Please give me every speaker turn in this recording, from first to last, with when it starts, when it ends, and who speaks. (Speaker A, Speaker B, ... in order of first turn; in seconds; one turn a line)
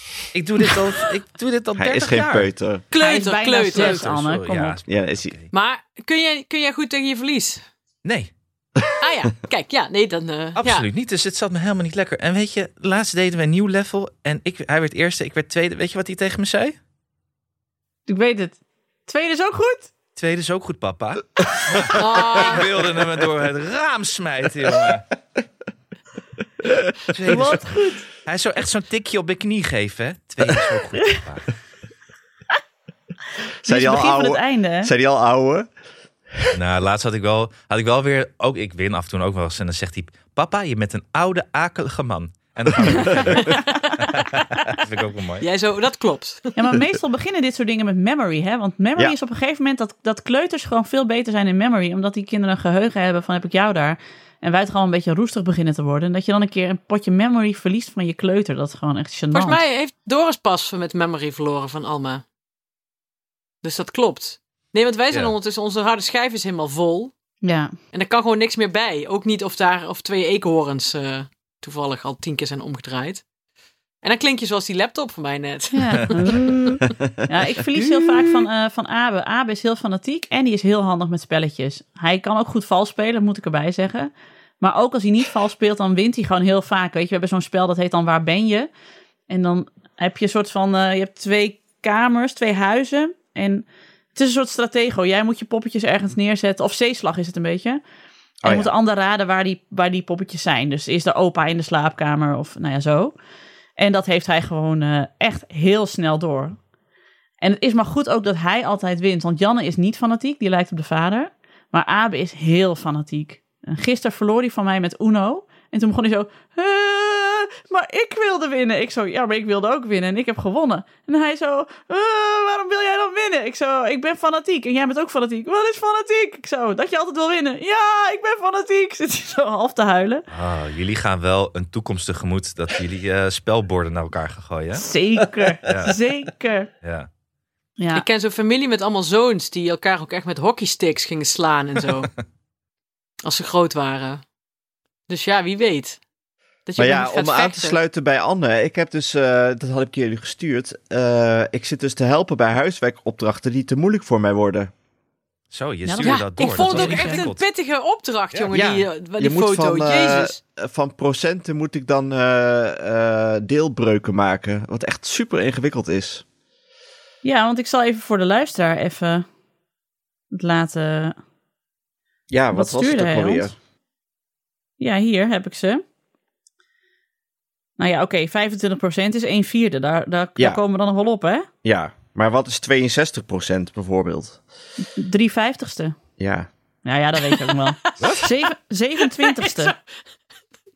Speaker A: 0.3-2.5
Speaker B: 1.8-2.8
Speaker C: 2.9-4.1
Speaker D: 3.0-4.8
Speaker A: 3.7-5.5
Speaker B: 4.9-5.4
Speaker C: 5.5-7.6
Speaker A: 8.0-8.3
Speaker C: 9.0-10.9
Speaker A: 10.6-16.7
Speaker D: 18.1-19.9
Speaker A: 20.1-25.0
Speaker C: 21.9-22.7
Speaker A: 27.1-31.5
Speaker D: 27.3-28.0
Speaker B: 33.6-35.7
Speaker D: 33.6-34.9
Speaker A: 36.5-45.5
Speaker C: 43.3-44.7
Speaker C: 45.4-46.5
Speaker D: 46.5-59.6
Speaker C: 59.3-62.2
Speaker C: 63.6-67.1
Speaker D: 67.4-67.7
Speaker C: 67.9-73.2
Speaker C: 74.0-76.8
Speaker D: 75.7-88.7
Speaker C: 77.8-78.5
Speaker D: 89.3-97.8
Speaker B: 98.4-98.7
Speaker D: 98.4-103.1
Speaker D: 103.8-106.6
Speaker D: 107.4-130.2
Speaker A: 130.3-134.8
Speaker D: 134.7-136.7
Speaker A: 135.6-135.9
Speaker A: 136.8-137.1
Speaker D: 137.8-138.0
Speaker C: 137.9-142.1
Speaker C: 143.2-144.2
Speaker C: 145.1-146.0
Speaker C: 146.7-147.8
Speaker B: 146.8-154.7
Speaker A: 155.5-157.4
Speaker D: 155.8-157.2
Speaker C: 156.0-160.4
Speaker B: 158.5-166.2
Speaker D: 167.2-169.2
Speaker D: 170.3-171.2
Speaker B: 172.3-173.5
Speaker D: 172.5-173.5
Speaker D: 174.8-175.8
Speaker D: 177.8-181.5
Speaker B: 181.6-184.4
Speaker D: 184.9-186.0
Speaker B: 186.2-186.5
Speaker D: 186.8-189.7
Speaker C: 187.4-188.3
Speaker A: 188.0-188.3
Speaker C: 189.0-189.8